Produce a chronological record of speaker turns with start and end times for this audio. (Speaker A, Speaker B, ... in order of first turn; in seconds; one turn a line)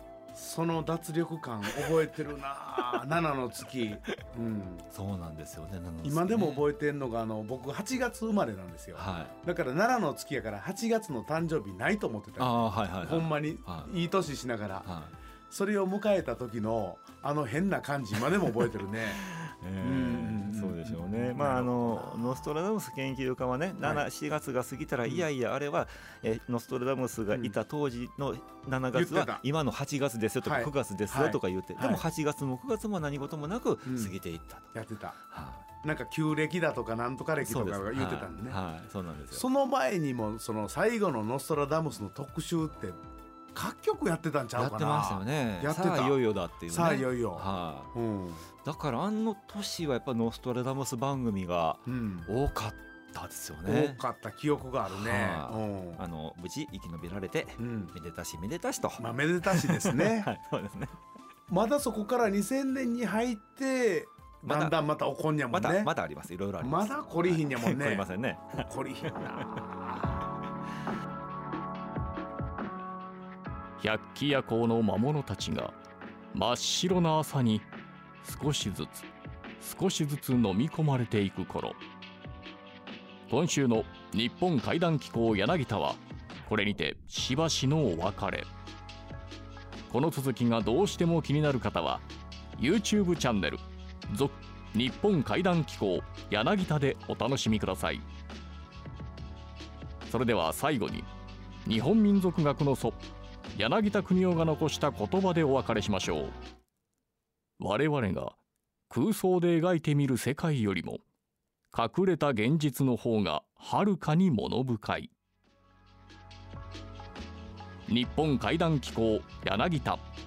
Speaker A: 0.3-4.8
Speaker B: 4.9-6.7
Speaker A: 6.0-14.9
Speaker B: 8.9-9.3
Speaker B: 12.4-13.9
Speaker B: 14.8-15.1
Speaker A: 15.5-19.2
Speaker B: 19.2-34.7
Speaker A: 19.8-22.4
Speaker A: 28.9-29.4
Speaker A: 30.4-32.0
Speaker A: 33.9-34.1
Speaker A: 34.7-35.2
Speaker B: 35.2-35.7
Speaker A: 35.8-38.6
Speaker B: 37.4-39.5
Speaker A: 39.3-43.0
Speaker A: 43.5-46.2
Speaker B: 44.6-47.9
Speaker A: 46.7-48.5
Speaker B: 48.6-54.0
Speaker A: 51.9-52.3
Speaker A: 53.7-56.0
Speaker B: 54.9-61.0
Speaker A: 57.6-57.9
Speaker A: 59.0-60.3
Speaker A: 61.5-65.9
Speaker B: 64.5-64.8
Speaker B: 65.5-69.6
Speaker A: 66.6-68.1
Speaker A: 68.7-70.1
Speaker C: 73.8-75.8
Speaker C: 76.3-77.7
Speaker C: 78.2-79.1
Speaker C: 79.6-81.8
Speaker C: 83.3-88.5
Speaker C: 89.9-92.0
Speaker C: 92.6-98.0
Speaker C: 100.1-101.1
Speaker C: 101.7-103.0
Speaker C: 103.5-106.3
Speaker C: 107.6-108.4
Speaker C: 108.9-111.0
Speaker C: 111.7-115.1
Speaker C: 117.9-120.0